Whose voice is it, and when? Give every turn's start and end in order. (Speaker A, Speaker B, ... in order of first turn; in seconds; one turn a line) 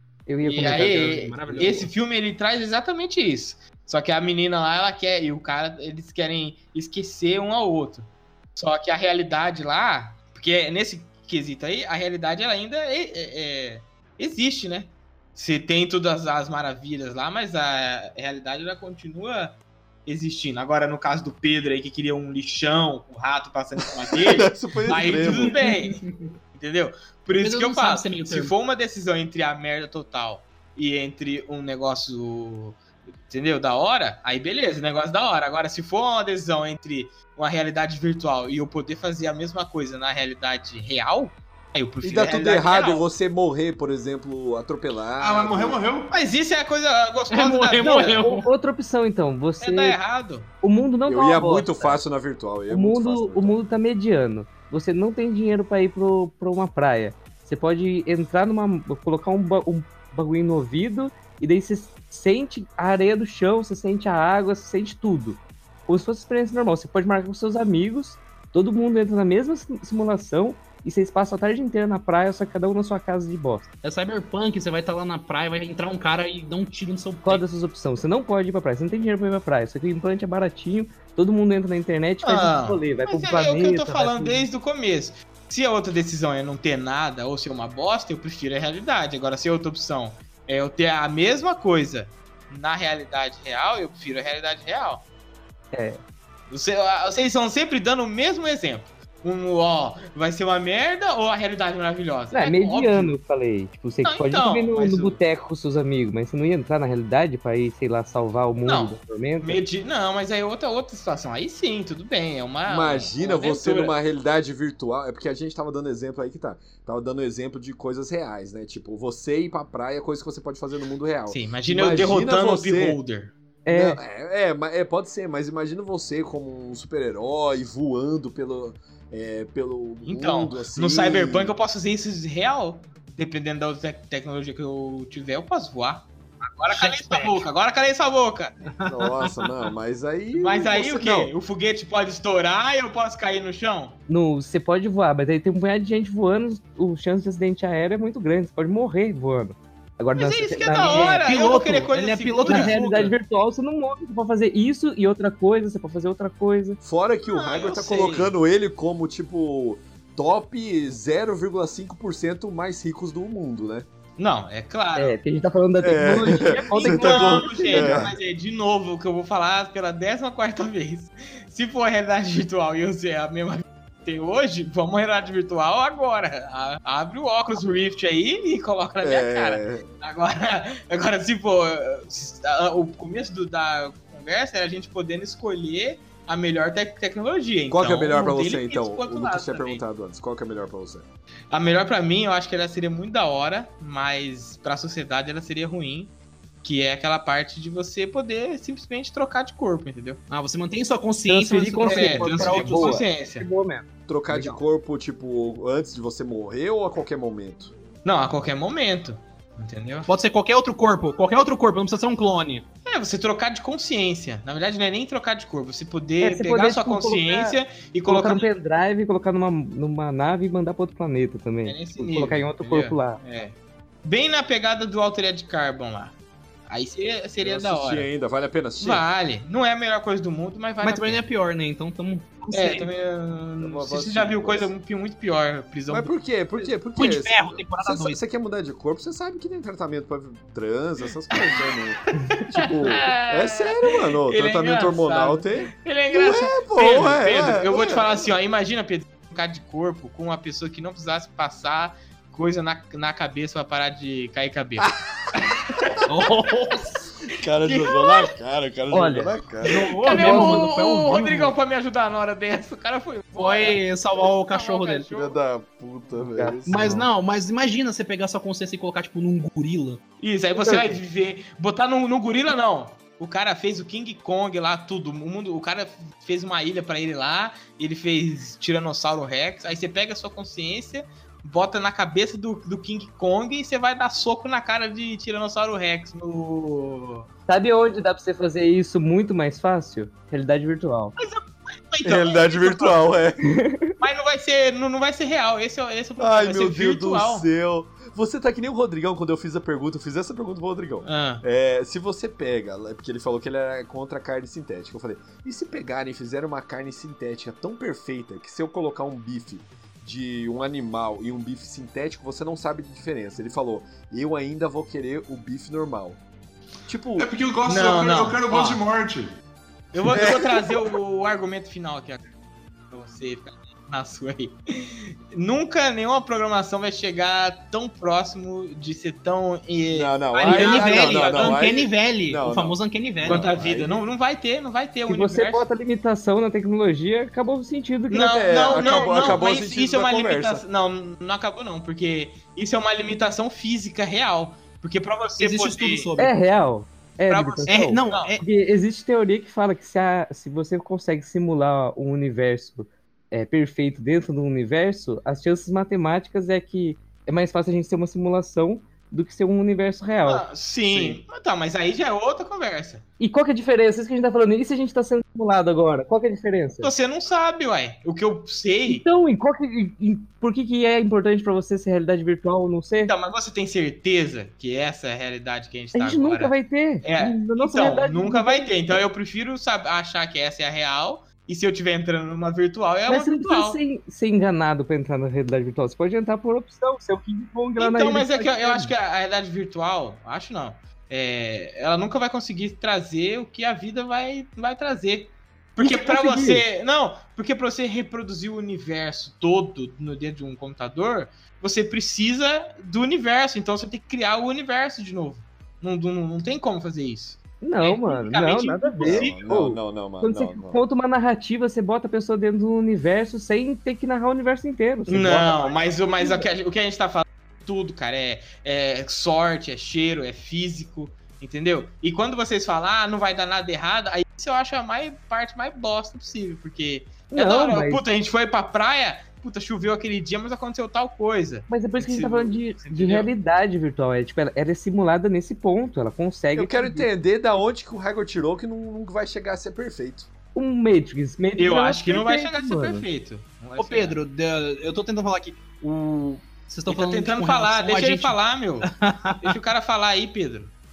Speaker A: 0.3-1.6
Speaker B: 0.4-1.9
Speaker C: 0.4-26.0
Speaker D: 24.1-25.6
Speaker B: 24.9-26.3
Speaker C: 26.5-43.0
Speaker B: 27.4-28.5
Speaker D: 42.0-45.8
Speaker E: 45.2-46.1
Speaker C: 46.1-48.2
Speaker B: 47.3-48.5
Speaker A: 47.8-50.0
Speaker C: 49.6-50.5
Speaker A: 50.6-52.0
Speaker D: 51.0-53.6
Speaker A: 52.7-73.7
Speaker B: 73.8-77.4
Speaker A: 77.2-84.5
Speaker C: 82.2-95.0
Speaker A: 95.7-96.0
Speaker C: 96.5-103.1
Speaker A: 102.3-109.6
Speaker C: 104.0-105.2
Speaker C: 108.6-114.0
Speaker D: 112.7-123.0
Speaker C: 121.3-123.3
Speaker A: 123.7-124.0
Speaker D: 123.7-131.5
Speaker C: 130.0-138.5
Speaker B: 136.7-137.4
Speaker B: 138.7-139.5
Speaker D: 138.9-141.3
Speaker C: 140.3-144.0
Speaker A: 144.1-151.2
Speaker C: 150.2-153.1
Speaker B: 150.8-153.1
Speaker A: 152.4-156.8
Speaker D: 156.8-163.8
Speaker C: 157.3-158.3
Speaker C: 164.2-165.2
Speaker A: 164.9-168.1
Speaker D: 165.8-168.1
Speaker C: 166.7-189.8
Speaker D: 179.0-179.9
Speaker D: 187.7-191.1
Speaker C: 191.5-200.2
Speaker B: 200.3-203.1
Speaker C: 201.2-203.5
Speaker A: 201.4-204.6
Speaker D: 204.1-207.7
Speaker C: 208.0-210.1
Speaker B: 210.1-212.6
Speaker C: 212.9-218.5
Speaker A: 216.2-223.2
Speaker C: 221.6-226.1
Speaker C: 226.7-228.1
Speaker D: 227.4-229.0
Speaker C: 228.8-231.2
Speaker B: 230.8-232.9
Speaker C: 232.5-236.1
Speaker D: 233.6-234.7
Speaker D: 235.9-248.3
Speaker B: 236.9-238.2
Speaker C: 241.3-241.7
Speaker C: 242.2-255.5
Speaker D: 254.8-255.4
Speaker B: 256.1-257.1
Speaker D: 257.3-260.6
Speaker C: 257.6-258.3
Speaker A: 258.9-259.3
Speaker B: 259.6-261.5
Speaker C: 260.0-265.3
Speaker B: 263.3-265.2
Speaker D: 265.1-267.1
Speaker A: 266.2-266.5
Speaker B: 266.6-270.0
Speaker C: 270.2-287.3
Speaker A: 270.6-271.0
Speaker A: 287.5-291.1
Speaker C: 291.1-293.2
Speaker D: 292.0-293.4
Speaker A: 293.4-293.9
Speaker C: 294.0-297.5
Speaker D: 296.2-316.2
Speaker C: 301.0-301.4
Speaker D: 316.9-317.3
Speaker E: 317.2-319.4
Speaker C: 317.6-318.8
Speaker C: 319.9-322.2
Speaker D: 320.1-320.8
Speaker C: 322.9-331.9
Speaker D: 329.9-334.0
Speaker B: 330.3-333.5
Speaker C: 333.2-335.7
Speaker A: 335.1-339.4
Speaker C: 338.1-346.1
Speaker D: 338.2-340.6
Speaker B: 345.4-346.4
Speaker A: 346.2-360.5
Speaker C: 347.3-348.4
Speaker B: 347.7-348.4
Speaker C: 360.2-363.0
Speaker D: 360.9-361.2
Speaker A: 363.2-366.9
Speaker C: 366.8-369.0
Speaker A: 368.9-373.1
Speaker C: 373.0-383.8
Speaker A: 375.9-379.0
Speaker A: 383.1-388.9
Speaker C: 387.8-409.3
Speaker A: 395.8-396.6
Speaker A: 407.6-416.4
Speaker D: 409.0-410.8
Speaker C: 415.1-433.3
Speaker A: 427.3-428.0
Speaker A: 431.7-437.1
Speaker D: 436.5-440.3
Speaker A: 440.5-443.1
Speaker C: 441.6-444.2
Speaker B: 443.8-449.6
Speaker C: 446.9-450.7